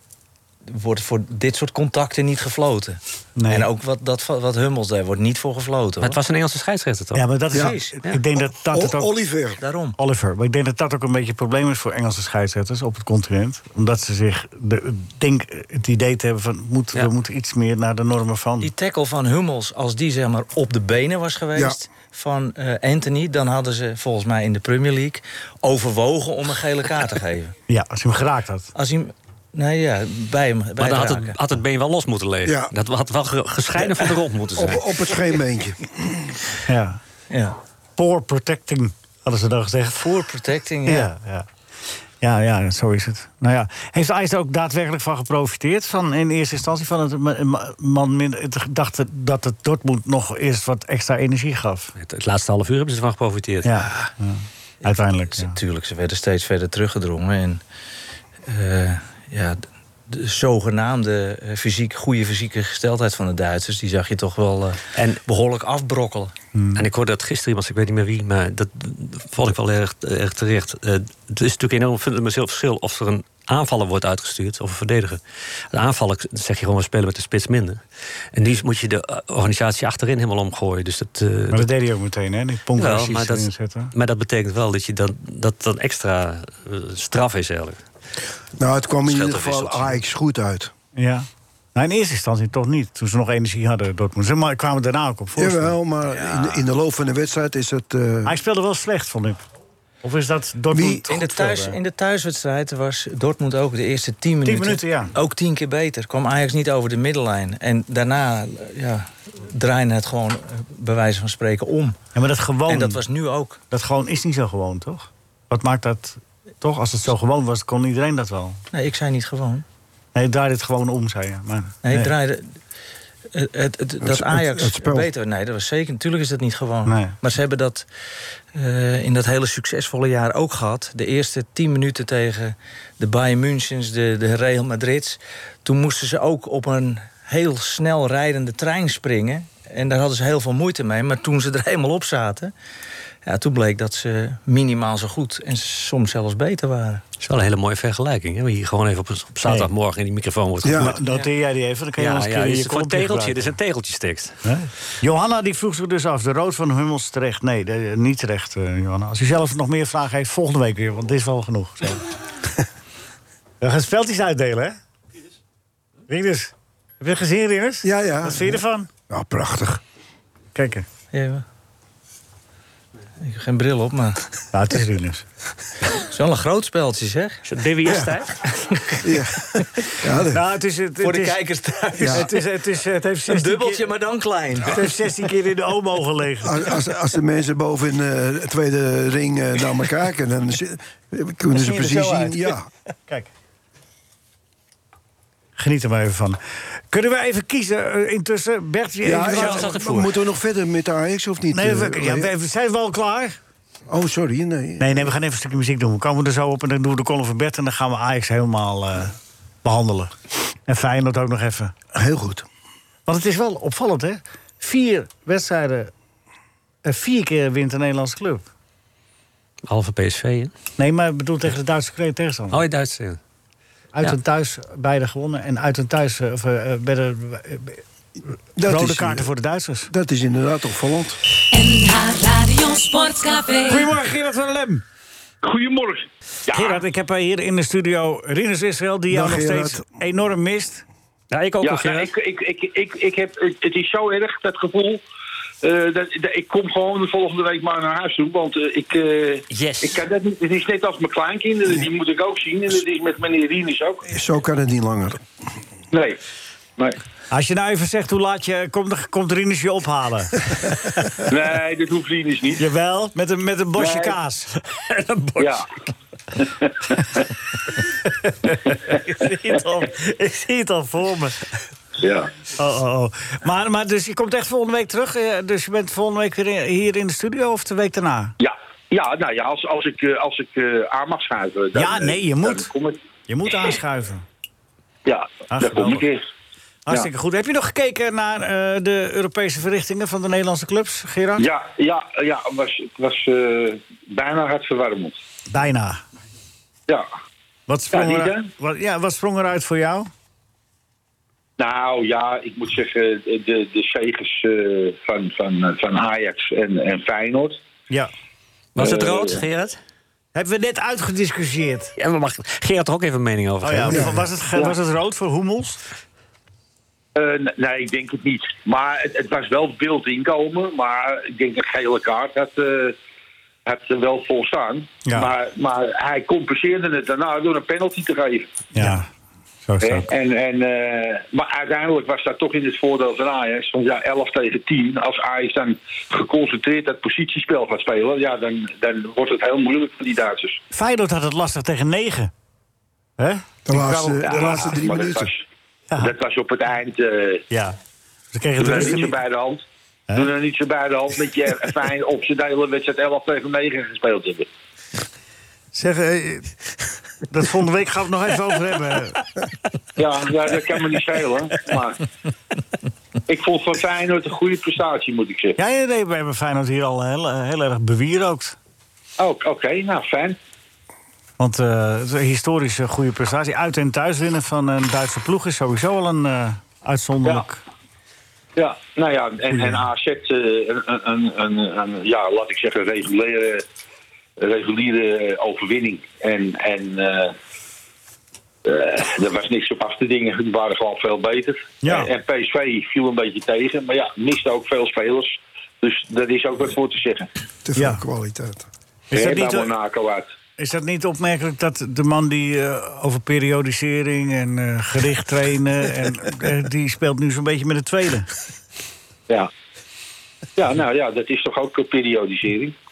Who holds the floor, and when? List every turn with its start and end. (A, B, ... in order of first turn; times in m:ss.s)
0:00.7-0:06.2 A
0:03.4-0:03.7 B
0:06.0-0:07.3 C
0:07.1-0:09.1 B
0:07.5-0:07.9 A
0:08.5-0:09.6 D
0:09.6-0:10.0 A
0:10.0-0:18.7 B
0:18.6-0:27.5 A
0:27.7-0:28.7 B
0:28.7-0:31.4 A
0:30.8-0:35.2 C
0:32.4-0:32.7 D
0:34.5-0:36.3 D
0:36.7-0:37.0 B
0:37.3-0:37.6 A
0:38.0-0:40.1 B
0:40.0-0:41.1 A
0:40.8-0:41.5 B
0:42.2-0:51.9 B
0:52.0-0:53.7 C
0:53.6-0:55.6 B
0:53.8-0:54.1 A
0:55.3-0:57.6 A
0:58.4-1:06.3 A
1:04.9-1:05.2 C
1:06.5-1:06.8 B
1:06.7-1:15.2 C
1:15.7-1:17.8 C
1:18.3-1:21.7 C
1:21.5-1:23.9 B
1:22.7-1:27.8 C
1:28.6-1:30.7 D
1:29.1-1:30.0 C
1:31.0-1:35.7 B
1:35.4-1:38.3 D
1:36.1-1:36.6 A
1:38.2-1:39.4 B
1:40.0-1:41.8 B
1:40.7-1:41.0 D
1:41.1-1:52.0 A
1:44.4-1:45.1 B
1:52.1-1:53.0 B
1:52.7-1:53.6 A
1:53.7-1:58.6 B
1:58.7-1:59.6 A
2:00.1-2:02.1 B
2:01.8-2:02.6 A
2:03.3-2:07.8 A
2:04.0-2:05.1 D
2:06.8-2:07.1 B
2:08.5-2:22.5 A
2:23.2-2:27.0 A
2:27.2-2:31.3 C
2:29.4-2:29.7 B
2:30.6-2:30.9 D
2:30.8-2:33.5 B
2:32.0-2:34.3 C
2:34.4-2:42.0 B
2:43.6-2:44.8 B
2:46.1-2:48.9 B
2:47.8-2:49.8 D
2:50.5-2:50.8 B
2:51.1-2:51.4 A
2:53.2-2:54.2 A
2:54.5-2:55.2 B
2:56.0-2:57.4 A
2:57.4-2:58.4 C
2:58.7-2:59.0 A
2:59.0-3:00.4 D
3:00.3-3:01.4 B
3:01.0-3:02.3 A
3:02.0-3:02.2 D
3:02.1-3:03.8 B
3:03.3-3:04.8 A
3:04.7-3:06.6 B
3:06.4-3:12.7 D
3:11.5-3:12.6 B
3:15.6-3:19.7 B
3:19.0-3:22.3 D
3:19.3-3:20.1 C
3:21.5-3:23.4 B
3:23.9-3:25.1 D
3:24.8-3:30.1 B
3:30.6-3:31.7 B
3:31.9-3:32.4 D
3:33.1-3:35.9 B
3:36.8-3:38.5 B
3:39.7-3:40.5 C
3:40.8-3:42.6 B
3:42.5-3:43.2 C
3:43.9-3:47.8 B
3:48.6-3:49.3 D
3:48.6-3:49.9 B
3:49.9-3:51.2 D
3:51.5-3:53.9 E
3:53.6-3:54.8 B
3:55.4-3:56.8 F
3:56.5-4:00.8 B
3:59.1-3:59.8 D
4:01.3-4:02.1 C
4:01.6-4:05.0 F
4:05.6-4:14.0 F
4:09.5-4:10.0 C
4:14.0-4:15.2 D
4:15.9-4:16.2 F
4:17.3-4:21.2 B
4:21.3-4:22.6 F
4:22.6-4:24.6 B
4:23.8-4:24.1 F
4:25.4-4:25.6 F
4:26.4-4:27.2 F
4:28.0-4:31.5 B
4:32.0-4:32.3 F
4:32.6-4:38.3 B
4:38.4-4:43.0 F
4:41.7-4:42.7 B
4:43.3-4:44.2 B
4:45.0-4:46.2 F
4:45.5-4:46.0 B
4:46.9-4:51.5 B
4:51.4-4:55.2 F
4:55.5-4:56.0 B
4:57.7-5:00.1 B
4:57.9-4:58.5 F
5:01.6-5:07.6 F
5:08.8-5:09.8 C
5:08.8-5:09.4 F
5:10.3-5:11.9 B
5:12.0-5:14.1 C
5:13.6-5:15.8 B
5:17.1-5:23.0 F
5:23.6-5:28.5 F
5:25.0-5:25.3 B
5:28.7-5:29.1 B
5:29.6-5:30.0 B
5:29.8-5:40.6 F
5:40.7-5:42.3 B
5:43.2-5:44.6 B
5:43.6-5:45.3 D
5:44.2-5:45.4 F
5:46.0-5:47.4 F
5:47.5-5:47.8 B
5:48.3-5:49.2 B
5:48.6-5:54.5 F
5:55.7-5:56.6 B
5:57.2-5:59.3 B
6:00.0-6:02.0 F
6:03.3-6:05.6 F
6:05.6-6:08.6 B
6:09.2-6:10.4 F
6:11.4-6:17.6 B
6:18.6-6:23.6 F
6:19.5-6:19.8 B
6:24.4-6:27.3 F
6:28.6-6:37.3 F
6:31.8-6:32.1 B
6:37.6-6:38.6 D
6:37.8-6:38.0 B
6:39.1-6:39.7 B
6:39.1-6:40.3 F
6:40.6-6:48.3 B
6:50.6-6:52.8 F